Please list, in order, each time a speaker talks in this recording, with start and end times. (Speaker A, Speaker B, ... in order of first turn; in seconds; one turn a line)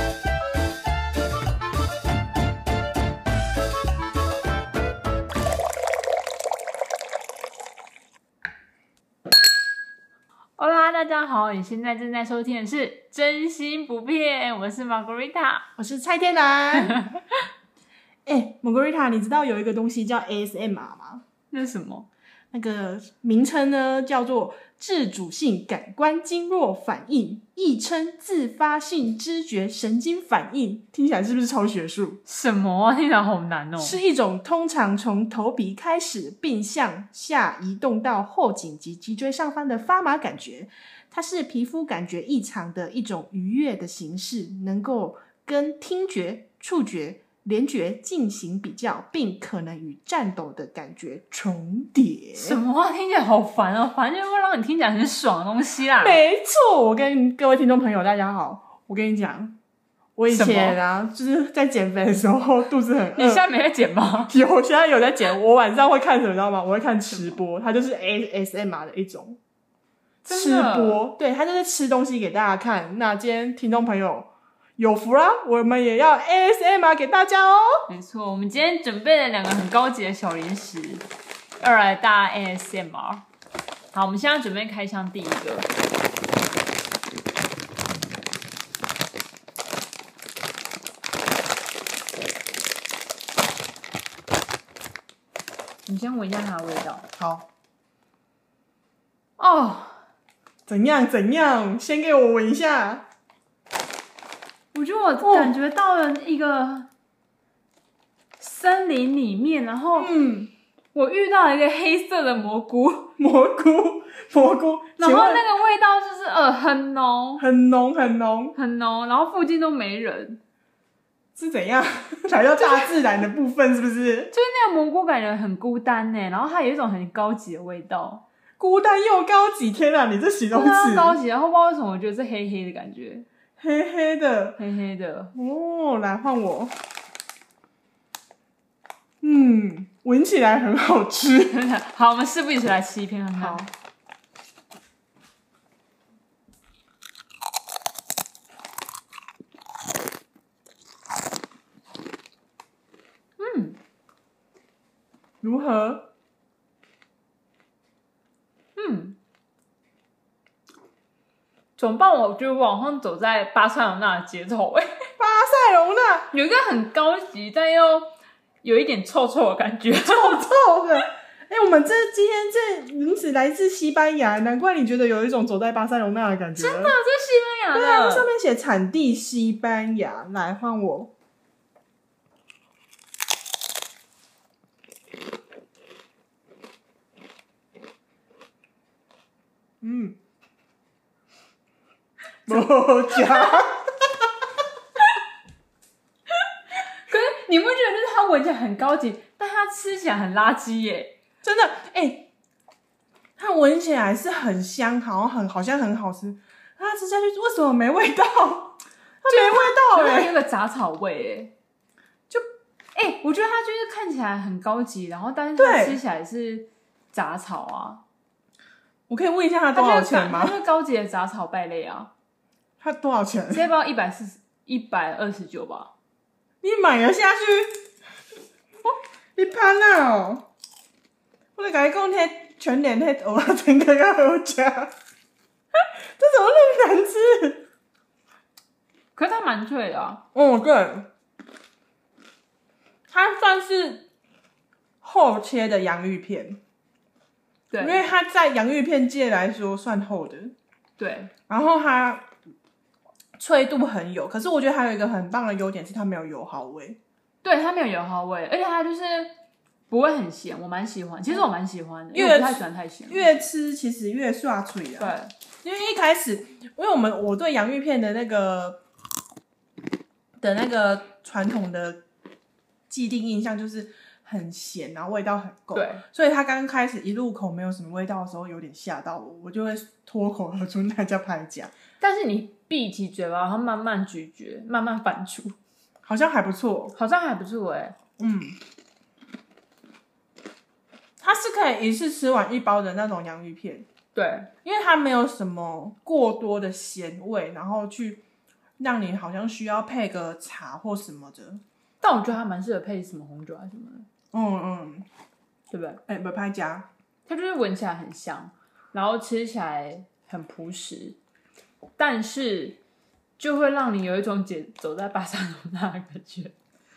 Speaker A: 10.6-15.7
Speaker B: 15.8-17.1
Speaker B: 18.3-21.2
Speaker A: 21.5-22.1
Speaker B: 22.5-32.2
Speaker A: 32.3-34.0
Speaker B: 33.8-52.6
Speaker A: 52.4-56.2
Speaker B: 56.0-59.5
Speaker B: 60.2-63.5
Speaker A: 60.3-60.8
Speaker A: 63.1-64.3
Speaker B: 64.3-69.4
Speaker A: 67.1-67.4
Speaker B: 70.3-77.9
Speaker A: 70.3-71.1
Speaker A: 77.9-81.1
Speaker A: 81.6-83.2
Speaker A: 83.9-85.7
Speaker A: 95.9-97.1
Speaker B: 97.2-97.5
Speaker A: 99.4-100.0
Speaker B: 100.7-103.1
Speaker A: 104.7-106.9
Speaker B: 105.2-105.5
Speaker A: 108.4-110.1
Speaker B: 110.0-110.5
Speaker A: 110.9-113.1
Speaker B: 113.2-115.4
Speaker A: 115.0-117.5
Speaker B: 117.4-118.6
Speaker A: 118.5-120.4
Speaker B: 121.4-124.3
Speaker A: 124.3-128.2
Speaker B: 128.6-131.2
Speaker A: 130.5-133.3
Speaker B: 133.6-134.6
Speaker A: 134.6-135.3
Speaker B: 135.3-136.7
Speaker B: 139.2-141.6
Speaker A: 141.5-143.7
Speaker B: 143.4-143.7
Speaker A: 153.4-153.8
Speaker B: 155.4-156.1
Speaker A: 158.8-159.2
Speaker A: 161.8-165.0
Speaker B: 165.2-166.3
Speaker A: 166.3-168.1
Speaker A: 168.6-170.5
Speaker B: 170.0-176.9
Speaker A: 176.6-178.3
Speaker B: 177.7-181.1
Speaker B: 189.8-190.2
Speaker B: 192.5-193.9
Speaker A: 192.5-193.5
Speaker A: 197.1-201.2
Speaker B: 201.4-202.3
Speaker B: 203.4-210.3
Speaker A: 209.3-211.5
Speaker A: 212.9-218.0
Speaker B: 215.6-216.0
Speaker B: 219.1-220.6
Speaker A: 219.7-222.1
Speaker B: 222.8-223.7
Speaker A: 223.5-225.9
Speaker B: 226.6-227.9
Speaker B: 229.4-230.5
Speaker B: 231.6-234.9
Speaker B: 236.2-237.7
Speaker A: 239.2-240.2
Speaker B: 240.3-241.1
Speaker B: 243.1-244.1
Speaker B: 245.0-246.6
Speaker A: 247.7-248.0
Speaker B: 247.8-250.5
Speaker A: 251.0-251.3
Speaker B: 251.5-252.3
Speaker B: 253.4-257.0
Speaker A: 257.4-259.3
Speaker A: 259.9-263.3
Speaker B: 262.1-268.8
Speaker A: 265.0-265.3
Speaker B: 270.4-272.0
Speaker B: 272.9-281.7
Speaker A: 275.8-276.0
Speaker A: 282.0-285.6
Speaker B: 286.0-286.9
Speaker A: 286.9-288.0
Speaker B: 288.2-288.6
Speaker B: 291.2-293.9
Speaker A: 294.1-294.5
Speaker B: 294.6-298.2
Speaker B: 298.8-301.6
Speaker A: 302.0-304.1
Speaker B: 304.3-305.1
Speaker A: 305.7-306.0
Speaker B: 306.1-306.9
Speaker A: 307.3-311.2
Speaker A: 312.0-312.8
Speaker A: 313.4-316.5